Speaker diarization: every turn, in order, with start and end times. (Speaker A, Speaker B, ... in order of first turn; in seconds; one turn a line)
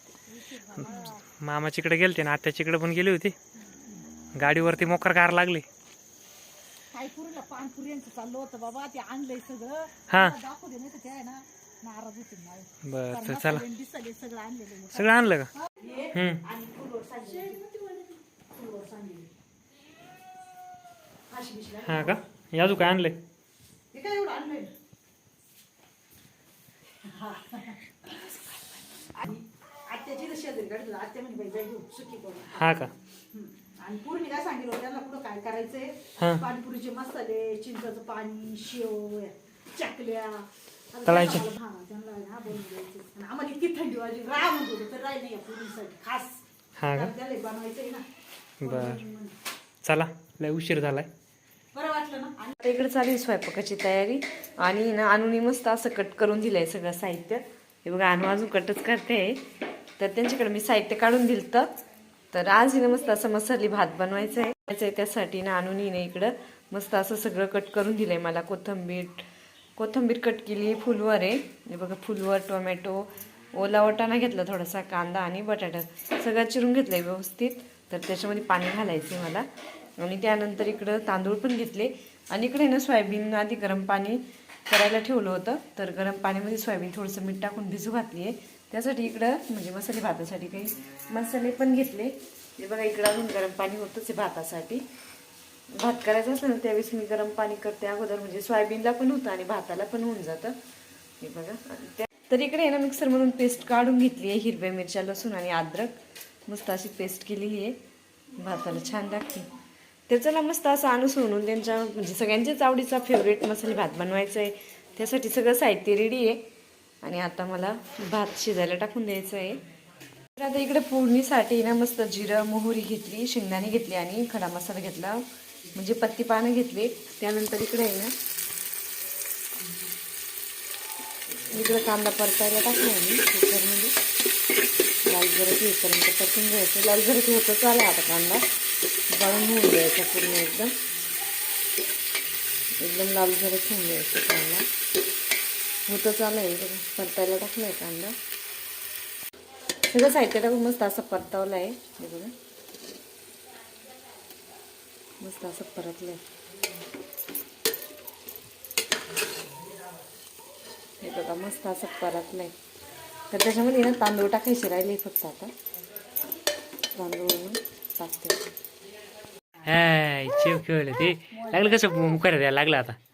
Speaker A: 0.3-1.2
Speaker B: 0.8-3.4
Speaker B: 4.4-5.7
Speaker A: 6.9-15.1
Speaker B: 10.1-10.3
Speaker B: 12.8-13.6
Speaker B: 14.9-15.5
Speaker A: 15.6-19.3
Speaker B: 16.1-16.4
Speaker A: 21.3-22.2
Speaker B: 21.9-23.2
Speaker A: 23.9-24.7
Speaker A: 27.0-28.4
Speaker A: 29.1-32.7
Speaker B: 32.5-32.9
Speaker A: 33.3-46.4
Speaker B: 41.1-41.4
Speaker B: 46.8-47.1
Speaker A: 46.9-48.0
Speaker B: 48.6-49.0
Speaker A: 48.6-49.4
Speaker B: 49.8-51.1
Speaker A: 51.7-52.6
Speaker C: 52.6-59.4
Speaker C: 60.0-61.7
Speaker C: 62.3-69.3
Speaker C: 69.8-79.5
Speaker C: 80.0-94.8
Speaker C: 95.7-100.5
Speaker C: 101.2-107.8
Speaker C: 108.4-109.5
Speaker C: 110.1-116.4
Speaker C: 117.0-119.6
Speaker C: 120.4-125.2
Speaker C: 125.7-128.1
Speaker C: 131.5-133.9
Speaker C: 135.1-138.4
Speaker C: 139.1-140.7
Speaker C: 142.8-144.7
Speaker C: 145.9-148.2
Speaker C: 149.9-152.3
Speaker C: 155.2-156.2
Speaker C: 161.0-162.6
Speaker C: 163.3-165.5
Speaker C: 166.9-168.4
Speaker B: 169.7-173.0
Speaker A: 171.3-172.0